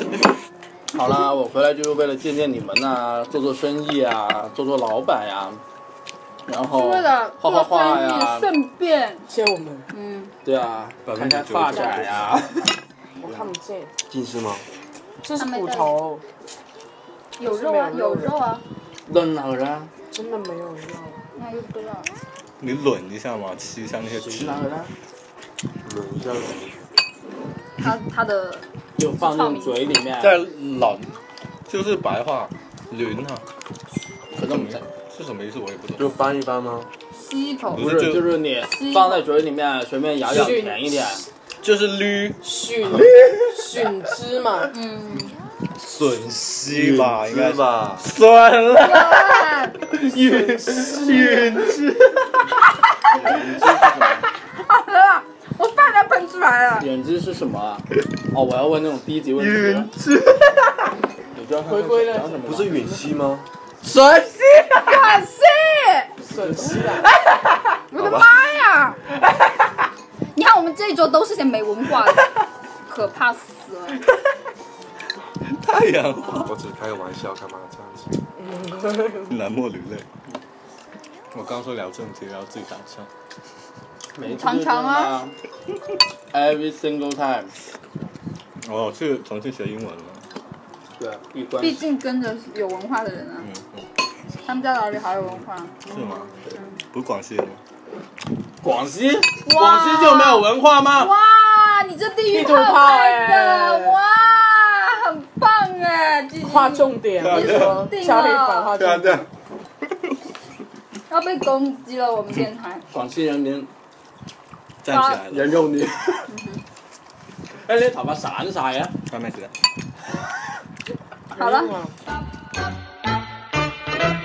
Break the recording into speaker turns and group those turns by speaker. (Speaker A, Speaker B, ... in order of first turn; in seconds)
Speaker A: 0.9-5.6, 6.5-8.5, 10.4-12.7, 19.1-19.9, 24.1-24.9, 29.0-30.4, 34.4-34.8, 37.8-41.2, 53.1-54.3, 56.8-59.9, 61.3-62.8, 66.3-66.9, 84.2-85.3, 86.3-87.5, 91.0-91.8, 98.6-101.1, 112.9-113.7, 115.3-116.2, 117.7-118.9
Speaker B: 6.7-9.3, 9.9-10.3, 15.4-15.9, 17.4-18.6, 21.4-22.1, 27.8-29.8, 37.2-37.9, 38.7-39.2, 44.7-45.3, 48.7-49.8, 54.7-56.9, 64.8-66.1, 67.9-69.0, 70.3-72.2, 72.9-74.0, 84.2-85.2, 91.6-93.5, 94.5-95.8, 99.5-108.8, 111.1-112.8, 114.9-115.2, 116.3-116.6, 121.4-121.7
Speaker C: 9.3-9.9, 13.2-13.9, 15.2-16.2, 17.4-18.4, 20.1-21.2, 40.3-40.9, 42.4-44.7, 50.1-51.8, 61.7-63.0, 66.2-67.1, 78.4-79.4, 102.3-104.0, 106.4-109.3, 121.3-121.9
Speaker D: 11.1-12.3, 22.6-24.6, 30.2-31.1, 31.7-33.4, 34.4-36.1, 37.7-38.3, 41.6-43.9, 45.8-52.3, 59.4-60.8, 63.9-64.8, 68.0-68.3, 75.5-76.5, 79.3-80.1, 81.3-83.1, 88.6-90.2, 93.4-93.8, 95.9-96.3, 96.9-97.6, 107.2-107.9, 108.8-109.2, 114.8-115.7, 119.1-119.5
Speaker E: 14.1-14.7, 25.8-26.9, 36.0-36.9, 46.6-48.1, 53.2-53.7, 62.4-63.5, 76.3-78.2